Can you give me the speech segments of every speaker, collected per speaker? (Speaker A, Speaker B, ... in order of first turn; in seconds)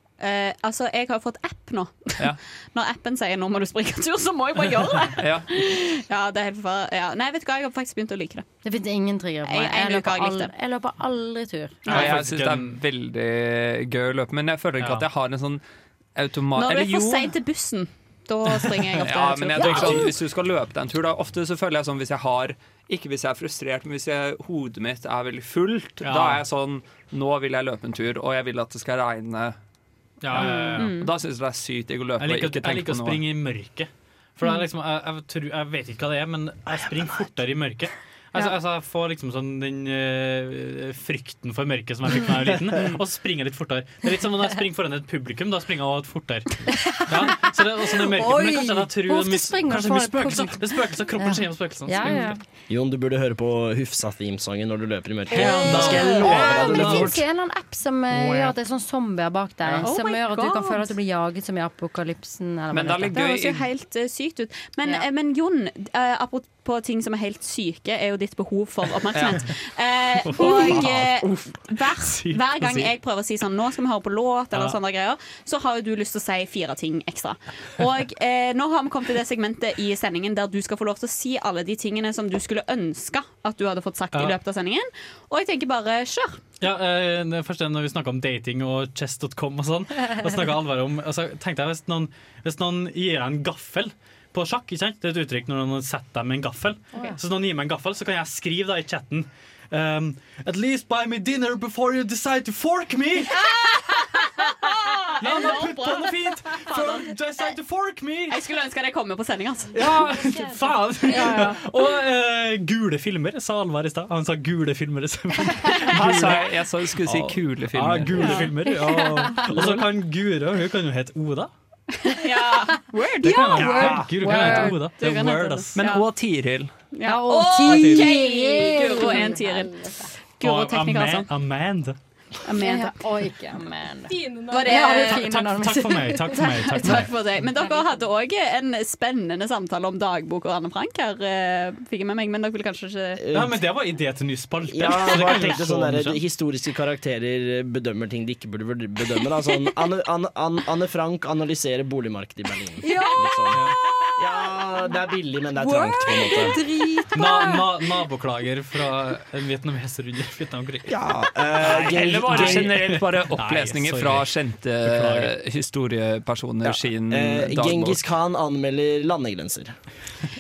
Speaker A: 0.2-8.5, 9.5-10.5, 16.6-20.1, 30.4-31.1, 59.8-60.9, 63.1-86.4, 104.4-107.1, 108.3-110.0, 111.1-111.5, 118.2-118.5, 122.0-126.1, 126.9-129.8, 130.4-131.3, 132.5-133.0, 134.4-135.5, 136.3-143.2
Speaker B: 5.2-5.5, 11.9-15.6, 16.2-17.4, 19.0-29.6, 30.3-33.2, 62.7-63.7, 69.1-69.5, 70.6-71.0, 115.9-118.5, 123.6-124.1, 125.8-126.7, 161.7-168.0
Speaker C: 8.6-12.0, 46.9-52.4, 55.3-63.3, 111.1-111.6, 118.7-119.6, 123.3-124.8, 127.0-130.1, 132.5-137.8, 152.8-154.2, 155.6-157.9
Speaker D: 11.9-12.8, 14.8-15.1, 19.6-20.1, 26.0-26.4, 30.2-31.1, 32.2-52.4, 55.3-57.2, 58.1-58.5, 70.3-71.5, 72.0-72.7, 86.6-103.6, 105.2-108.4, 109.7-121.5, 123.2-125.8, 127.7-128.1, 130.4-132.0, 134.9-137.1, 143.3-146.2, 157.1-161.0, 161.5-164.3, 164.8-165.3
Speaker E: 52.7-57.2, 143.2-143.6, 144.7-156.6, 160.9-162.9, 166.7-169.7